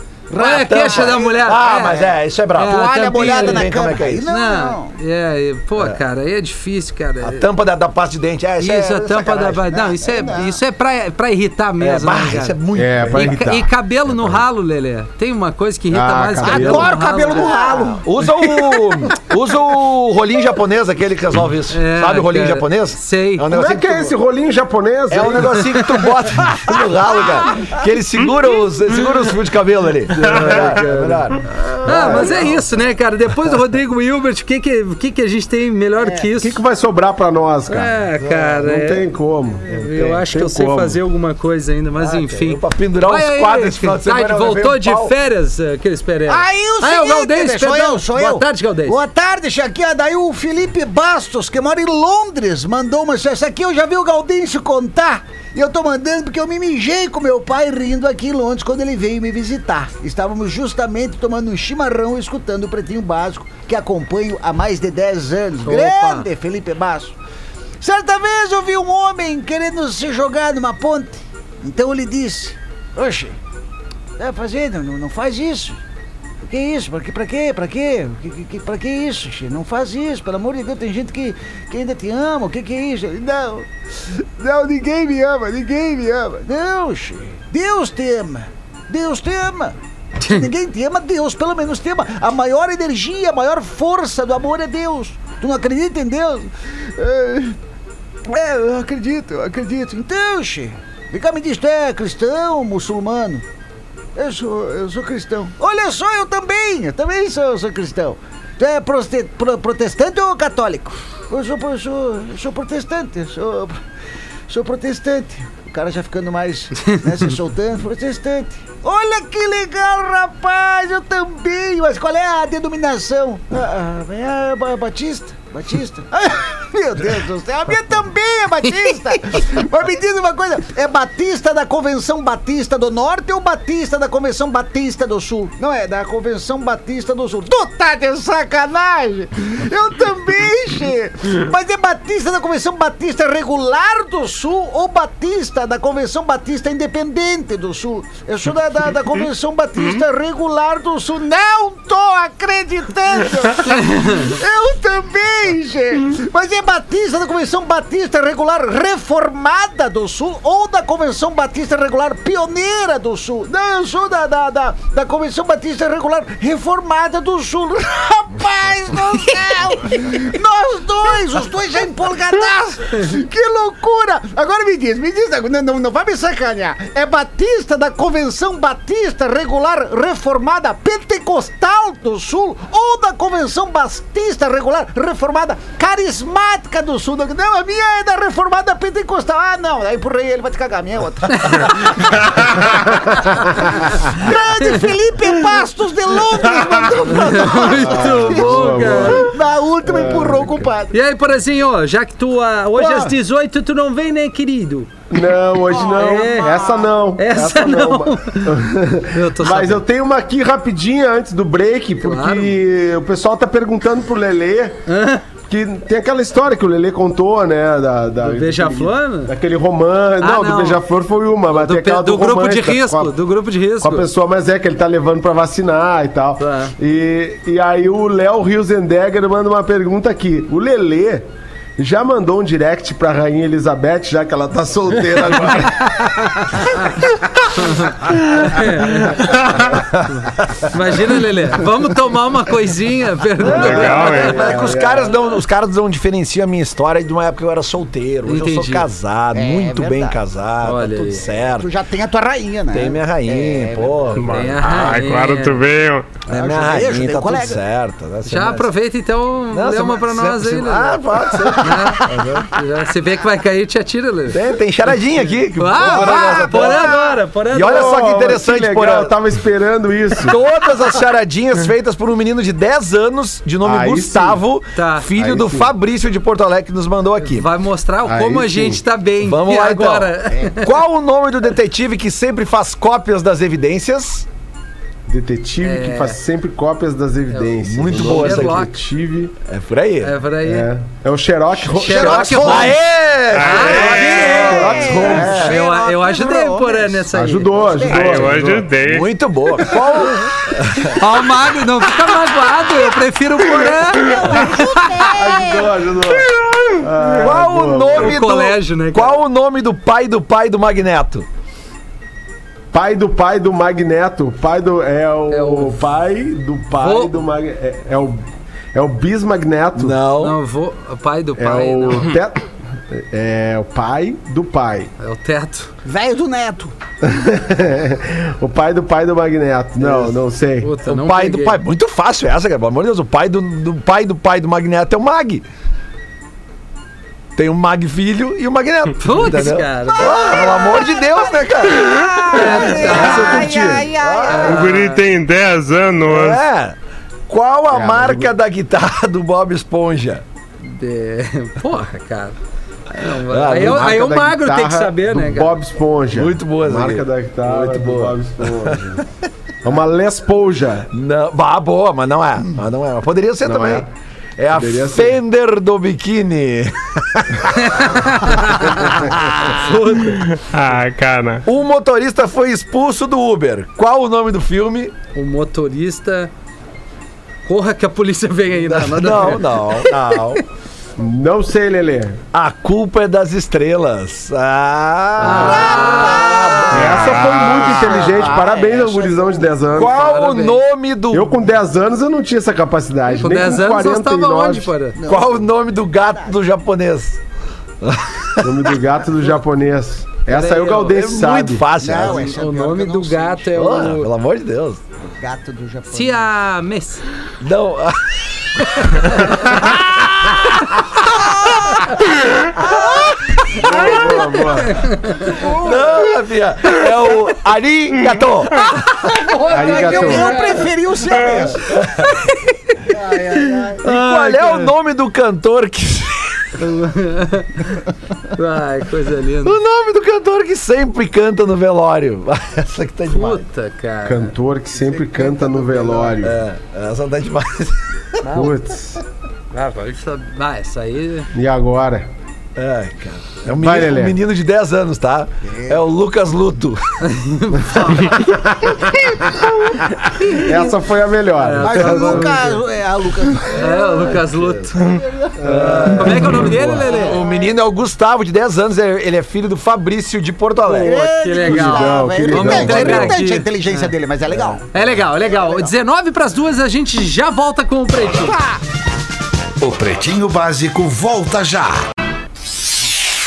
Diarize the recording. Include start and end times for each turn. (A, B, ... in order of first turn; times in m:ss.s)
0:00.3-0:01.9 A
0:00.4-0:03.6 B
0:00.4-0:04.3 C
0:02.6-0:04.9 A
0:04.3-0:07.4 B
0:07.2-0:09.6 C
0:08.6-0:12.6 B
0:09.7-0:10.6 A
0:11.8-0:13.4 C
0:12.7-0:13.7 D
0:13.1-0:17.6 B
0:15.9-0:16.9 D
0:16.4-0:18.0 A
0:17.3-0:24.1 C
0:21.7-0:23.4 B
0:23.5-0:25.7 D
0:25.1-0:32.6 C
0:30.2-0:30.7 D
0:30.2-0:31.3 B
0:31.6-0:32.5 D
0:31.8-0:36.6 B
0:36.4-0:37.9 D
0:37.7-0:39.0 B
0:38.2-0:38.6 C
0:38.6-0:39.7 D
0:39.7-0:49.0 B
0:39.7-0:40.2 C
0:40.2-0:41.0 D
0:42.0-0:45.1 C
0:46.3-1:07.2 A
1:05.6-1:06.3 B
1:07.8-1:13.4 A
1:14.2-1:15.8 A
1:16.4-1:37.6 A
1:30.2-1:30.5 B
1:38.2-1:43.4 A
1:44.1-1:53.8 A
1:54.5-3:21.0 A
2:08.8-2:09.4 B
2:33.6-2:34.3 B
3:11.3-3:11.9 B
3:17.1-3:19.3 B
3:17.7-3:19.3 D
3:19.8-3:20.7 D
3:20.9-3:24.9 B
3:22.8-3:23.1 A
3:25.1-3:34.8 D
3:25.7-3:26.9 A
3:25.8-3:26.5 B
3:27.2-3:29.8 B
3:32.0-3:32.6 B
3:34.9-3:35.2 B
3:35.4-3:43.1 D
3:38.2-3:39.3 B
3:40.2-3:40.8 B
3:41.5-3:44.0 B
3:43.8-3:51.2 D
3:46.4-3:46.7 B
3:51.8-3:56.0 D
3:56.0-3:56.9 B
3:57.6-3:59.2 B
4:00.7-4:04.3 B
4:03.4-4:05.2 D
4:03.4-4:11.7 C
4:03.6-4:04.3 E
4:08.3-4:08.8 B
4:09.3-4:10.2 A
4:10.6-4:11.2 B
4:11.3-4:14.2 A
4:12.7-4:14.4 C
4:14.2-4:16.2 E
4:14.3-4:15.6 B
4:16.3-4:16.6 B
4:16.3-4:17.6 A
4:16.3-4:18.7 C
4:18.2-4:21.0 B
4:19.5-4:22.5 C
4:21.5-4:24.4 B
4:22.1-4:22.4 D
4:24.3-4:26.9 C
4:25.6-4:27.9 B
4:25.8-4:26.9 D
4:26.1-4:27.2 A
4:27.5-4:29.1 C
4:27.5-4:30.4 D
4:30.2-4:37.5 C
4:33.6-4:34.4 D
4:34.8-4:35.0 B
4:35.2-4:35.7 D
4:37.2-4:40.6 B
4:38.0-4:38.8 D
4:39.2-4:44.2 C
4:45.1-4:49.3 D
4:45.6-4:46.2 B
4:47.3-4:48.7 B
4:47.6-4:48.6 C
4:49.5-4:50.1 C
4:50.0-4:50.7 B
4:50.4-4:52.8 D
4:51.6-4:52.8 B
4:51.9-4:52.7 A
4:52.1-4:55.6 C
4:53.3-4:54.5 E
4:53.3-4:57.9 B
4:54.2-4:55.5 D
4:54.4-4:58.3 A
4:57.1-4:58.7 D
4:57.9-4:59.1 E
4:58.8-5:01.0 C
5:01.0-5:05.1 B
5:04.3-5:05.7 A
5:05.1-5:08.2 D
5:06.1-5:11.2 C
5:08.0-5:09.2 B
5:12.7-5:18.2 D
5:15.3-5:15.8 B
5:16.8-5:17.1 B
5:18.7-5:20.0 D
5:19.8-5:20.4 C
5:20.2-5:22.1 B
5:21.4-5:24.9 D
5:25.0-5:25.7 B
5:25.8-5:26.7 A
5:27.0-5:30.7 D
5:29.8-5:30.1 C
5:30.6-5:31.6 B
5:30.8-5:35.4 C
5:37.4-5:42.0 C
5:39.0-5:40.2 B
5:39.9-5:44.7 A
5:42.3-5:43.5 B
5:43.0-5:43.9 D
5:43.8-5:44.7 C
5:44.3-5:45.0 B
5:44.4-5:46.4 E
5:46.1-5:46.7 C
5:47.3-5:50.2 C
5:47.7-5:48.3 D
5:50.6-5:52.3 B
5:52.9-5:55.6 B
5:53.3-5:54.0 C
5:53.5-5:59.0 D
5:56.1-5:58.8 C
5:59.6-6:00.9 D
6:00.9-6:03.8 C
6:03.4-6:03.8 D
6:04.4-6:07.5 C
6:04.5-6:05.2 D
6:07.5-6:10.2 B
6:09.0-6:09.4 C
6:10.1-6:11.4 E
6:11.4-6:14.9 C
6:15.1-6:16.3 B
6:17.4-6:20.2 B
6:18.7-6:20.4 C
6:21.0-6:22.2 D
6:22.3-6:26.7 C
6:25.2-6:26.6 B
6:25.3-6:30.2 A
6:26.2-6:30.0 D
6:26.7-6:28.0 E
6:29.7-6:31.4 C
6:29.8-6:30.6 B
6:31.1-6:34.7 D
6:33.1-6:35.0 B
6:35.0-6:36.4 A
6:35.0-6:37.2 C
6:37.8-6:38.7 C
6:38.4-6:41.6 D
6:40.3-6:41.0 B
6:40.9-6:42.3 C
6:41.8-6:43.7 A
6:42.1-6:44.1 B
6:43.5-6:44.8 C
6:45.2-6:46.3 A
6:45.9-6:47.1 B
6:47.4-6:51.7 C
6:48.8-6:49.6 B
6:53.5-6:54.9 D
6:54.6-6:55.4 B
6:55.3-6:55.8 A
6:55.4-6:58.6 C
6:58.6-7:00.7 B
6:59.3-7:01.7 A
6:59.5-7:00.5 D
7:01.7-7:02.1 C
7:02.0-7:04.7 B
7:02.9-7:03.8 A
7:03.8-7:06.6 C
7:06.6-7:07.8 B
7:08.3-7:09.6 B
7:09.4-7:13.4 C
7:13.1-7:14.3 B
7:14.0-7:16.4 D
7:14.7-7:16.2 A
7:16.2-7:18.2 C
7:18.2-7:18.5 B
7:18.3-7:19.0 D
7:19.5-7:21.3 B
7:21.3-7:22.1 D
7:22.6-7:27.0 C
7:23.5-7:24.2 D
7:25.4-7:25.8 A
7:27.0-7:28.2 B
7:28.5-7:29.2 D
7:30.2-7:32.4 D
7:31.4-7:32.6 B
7:31.6-7:35.8 A
7:33.5-7:34.7 B
7:35.4-7:36.8 D
7:35.4-7:41.0 C
7:35.9-7:37.2 B
7:36.8-7:37.5 A
7:40.6-7:45.7 A
7:40.7-7:43.9 B
7:41.4-7:43.1 D
7:42.6-7:43.1 C
7:44.7-7:48.4 B
7:49.6-7:51.8 F